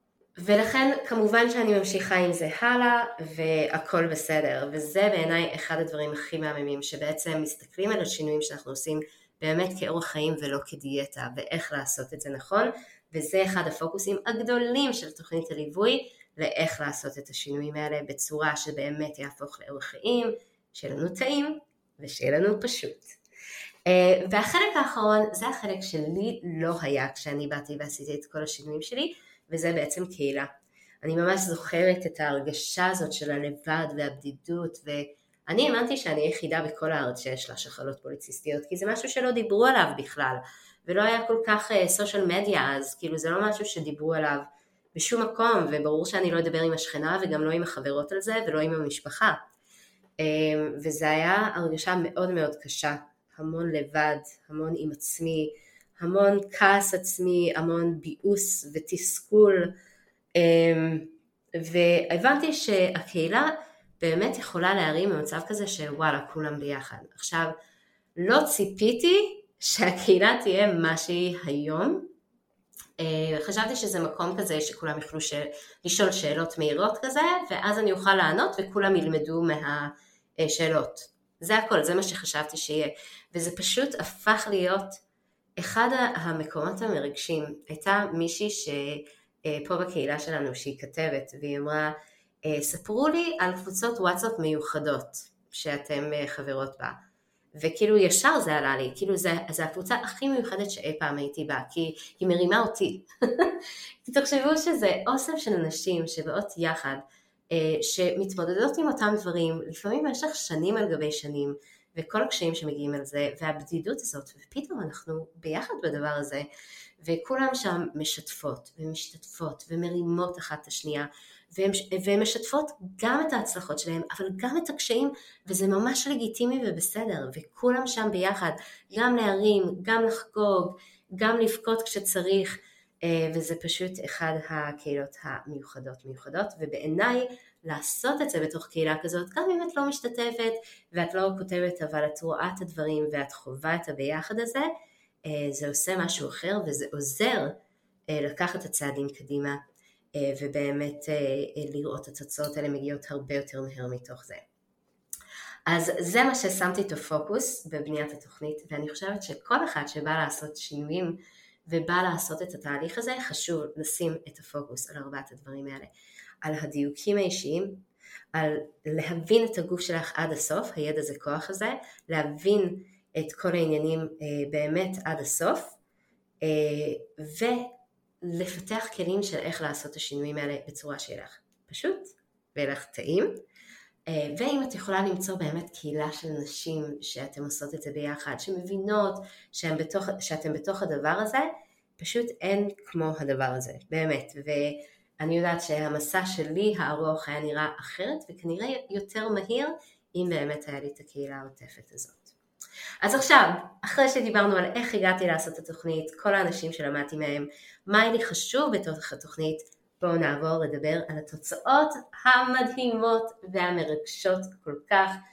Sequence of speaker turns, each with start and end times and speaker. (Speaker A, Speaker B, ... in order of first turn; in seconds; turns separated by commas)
Speaker A: 0.4-23.1, Speaker A: 23.9-30.5, Speaker A: 31.0-49.4, Speaker A: 50.2-59.7, Speaker A: 60.3-67.5, Speaker A: 68.2-72.1, Speaker A: 73.0-85.0, Speaker A: 85.6-97.0, Speaker A: 97.5-116.5, Speaker A: 117.0-144.7, Speaker A: 145.2-147.6, Speaker A: 148.1-149.6, Speaker A: 150.1-154.4, Speaker A: 155.7-165.9, Speaker A: 166.4-175.8, Speaker A: 176.4-177.7, Speaker A: 178.2-183.4, Speaker A: 184.1-202.3, Speaker A: 203.0-215.2